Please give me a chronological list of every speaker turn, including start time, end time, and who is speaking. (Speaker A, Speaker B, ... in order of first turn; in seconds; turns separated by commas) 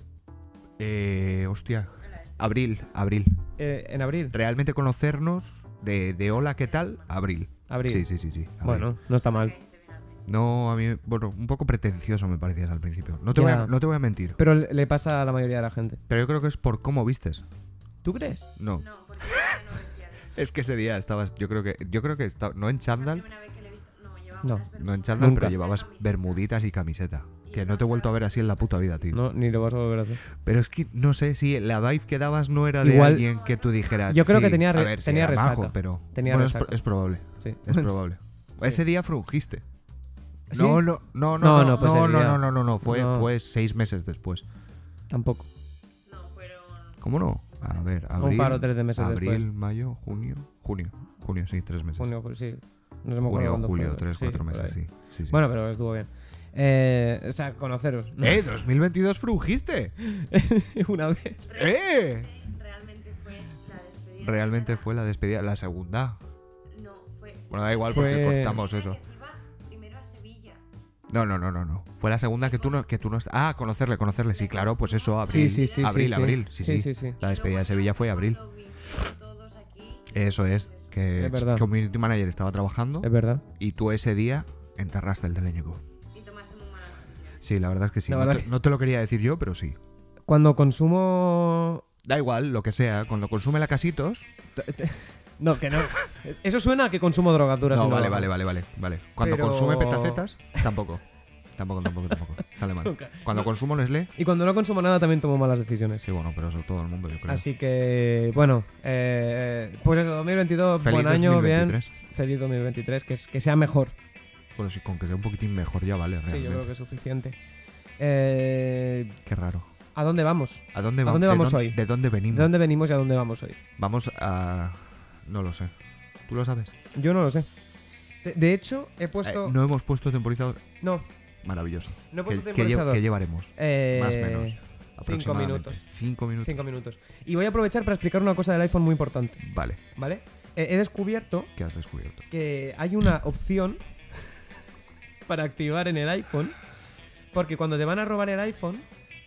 Speaker A: 0.8-3.4, Speaker B: 2.0-2.4, Speaker C: 3.6-4.3, Speaker A: 4.3-8.9, Speaker B: 6.4-7.1, Speaker C: 7.7-8.1, Speaker C: 8.6-9.5, Speaker B: 9.2-10.2, Speaker A: 10.3-14.4, Speaker C: 13.3-13.7, Speaker C: 14.4-16.0, Speaker A: 16.1-17.4, Speaker C: 18.0-18.5, Speaker A: 18.6-19.8, Speaker B: 18.8-20.7, Speaker A: 20.3-23.2, Speaker B: 22.9-26.5, Speaker C: 24.4-25.6, Speaker A: 24.7-29.2, Speaker B: 27.4-29.0, Speaker C: 29.1-30.2, Speaker A: 30.4-39.6, Speaker C: 32.8-33.2, Speaker B: 33.2-34.0, Speaker C: 34.1-36.8, Speaker C: 37.4-37.9, Speaker C: 38.6-38.8, Speaker C: 40.5-40.9, Speaker A: 40.5-44.5, Speaker C: 41.4-43.3, Speaker C: 45.1-45.5, Speaker B: 46.0-47.9, Speaker A: 47.0-52.1, Speaker C: 48.2-49.5, Speaker C: 52.0-54.8, Speaker A: 53.2-55.4, Speaker C: 55.3-58.5, Speaker A: 58.2-59.9, Speaker C: 60.0-61.4, Speaker B: 61.4-64.8, Speaker A: 61.5-62.3, Speaker A: 64.2-66.2, Speaker B: 66.7-70.6, Speaker A: 67.5-69.0, Speaker C: 67.9-68.6, Speaker A: 71.1-78.4, Speaker B: 72.4-72.9, Speaker B: 74.3-76.3, Speaker C: 75.2-77.2, Speaker B: 77.2-81.0, Speaker A: 80.1-85.8, Speaker C: 81.2-81.6, Speaker C: 83.0-83.4, Speaker B: 86.1-87.4, Speaker A: 87.4-89.8, Speaker C: 88.1-88.5, Speaker C: 90.3-91.8, Speaker A: 92.0-94.3, Speaker C: 94.5-98.3, Speaker A: 97.7-101.0, Speaker C: 99.2-100.6, Speaker A: 101.5-104.1, Speaker C: 102.8-103.5, Speaker C: 104.2-106.0, Speaker A: 106.0-107.4, Speaker C: 107.3-114.0, Speaker A: 110.8-111.9, Speaker A: 114.5-116.7, Speaker C: 116.3-117.4, Speaker C: 118.0-119.2, Speaker A: 119.2-119.7, Speaker C: 119.9-121.8, Speaker A: 120.7-122.5, Speaker C: 122.3-123.6, Speaker A: 123.8-125.7, Speaker A: 126.3-126.7, Speaker C: 126.9-127.5, Speaker C: 128.2-129.6, Speaker A: 129.2-130.6, Speaker C: 130.8-131.1, Speaker A: 131.4-136.6, Speaker C: 132.1-133.0, Speaker C: 133.5-135.8, Speaker C: 136.4-139.4, Speaker A: 139.4-139.8, Speaker C: 139.9-141.5, Speaker A: 141.6-142.3, Speaker C: 142.3-143.8, Speaker C: 145.3-146.6, Speaker C: 147.3-148.8